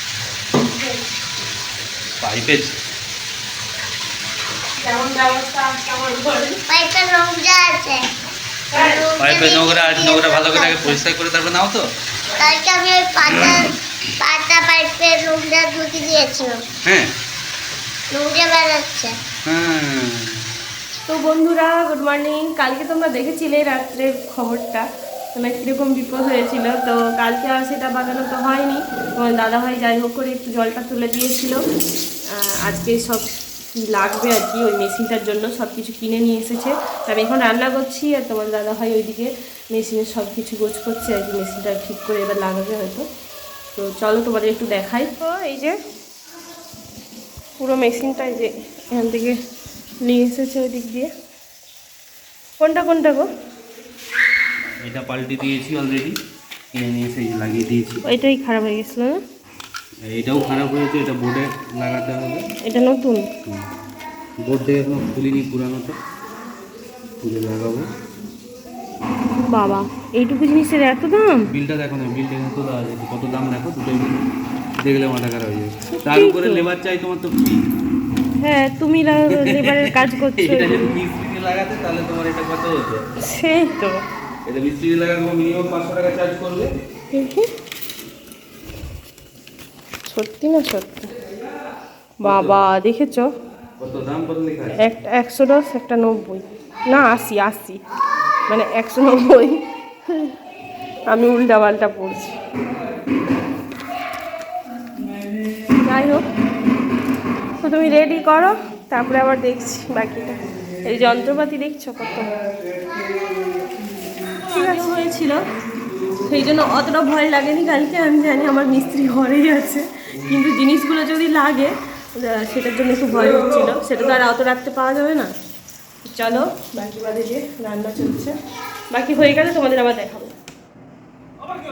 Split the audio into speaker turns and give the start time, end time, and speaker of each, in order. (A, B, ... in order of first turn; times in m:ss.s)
0:02.2-0:02.8 A
0:04.8-0:06.6 B
0:06.7-0:08.1 C
0:08.7-0:09.0 B
0:08.7-0:11.0 C
0:09.2-0:11.9 A
0:12.4-0:16.6 C
0:13.2-0:13.6 A
0:16.8-0:17.1 A
0:18.1-0:19.2 C
0:19.4-0:20.5 A
0:21.0-0:31.6 B
0:32.3-0:43.0 B
0:43.8-0:45.8 B
0:47.6-0:49.4 B
0:50.0-0:51.1 B
0:52.6-0:53.3 B
0:54.8-0:56.2 A
0:56.7-0:58.0 A
0:58.0-0:59.2 B
1:00.1-1:02.4 A
1:02.6-1:03.2 B
1:03.4-1:03.7 A
1:04.4-1:06.0 A
1:07.2-1:07.9 A
1:09.5-1:11.5 B
1:11.5-1:14.2 A
1:14.8-1:17.6 A
1:16.0-1:16.6 B
1:18.4-1:21.0 B
1:19.3-1:23.0 A
1:23.2-1:24.0 B
1:24.4-1:26.7 A
1:27.1-1:27.5 B
1:30.1-1:31.1 B
1:32.2-1:33.3 B
1:32.2-1:32.6 A
1:33.8-1:34.8 A
1:34.7-1:37.8 B
1:38.5-1:40.3 B
1:41.1-1:42.3 B
1:45.8-1:46.2 B
1:47.6-1:52.3 B
1:52.8-1:53.7 C
1:54.4-1:55.4 B
1:56.2-2:05.3 B
2:06.0-2:08.3 B
2:08.9-2:10.3 B